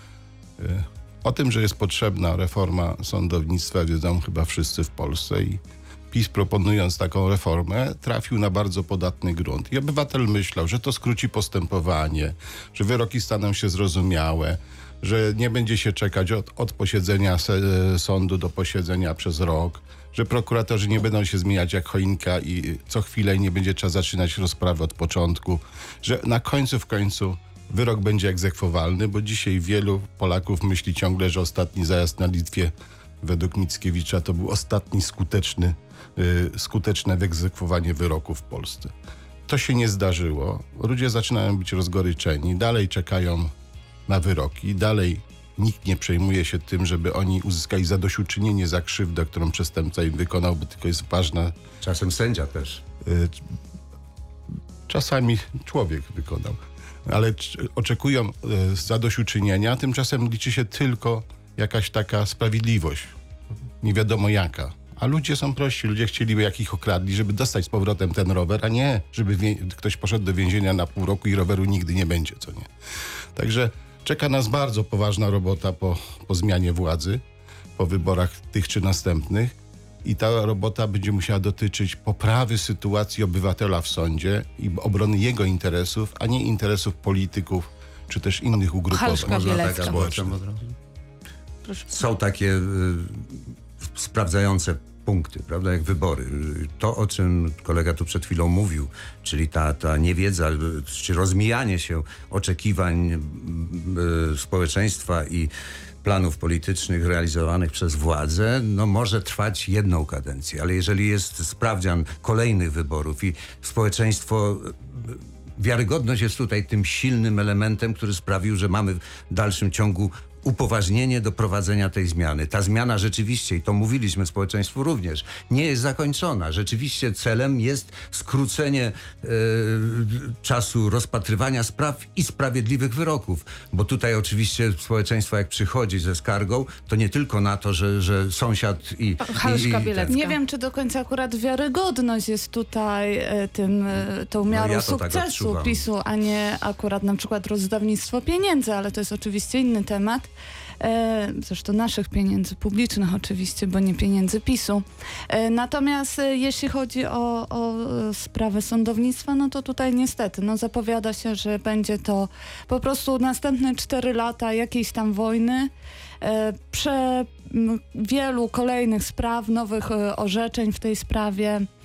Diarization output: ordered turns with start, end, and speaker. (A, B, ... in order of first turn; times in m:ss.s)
0:00.6-0:38.9 A
0:39.5-0:43.5 A
0:44.1-0:51.6 A
0:51.8-0:52.8 B
0:53.0-0:53.4 A
0:54.9-1:03.1 A
1:03.8-1:12.7 A
1:13.4-1:17.2 A
1:17.8-1:30.4 A
1:28.9-1:30.0 C
1:29.2-1:30.7 B
1:31.6-1:31.9 C
1:31.9-1:45.5 B
1:46.0-2:20.1 B
2:19.2-2:20.4 C
2:20.1-2:30.3 D
2:24.5-2:25.9 B
2:30.8-2:45.7 D
2:46.2-2:51.7 D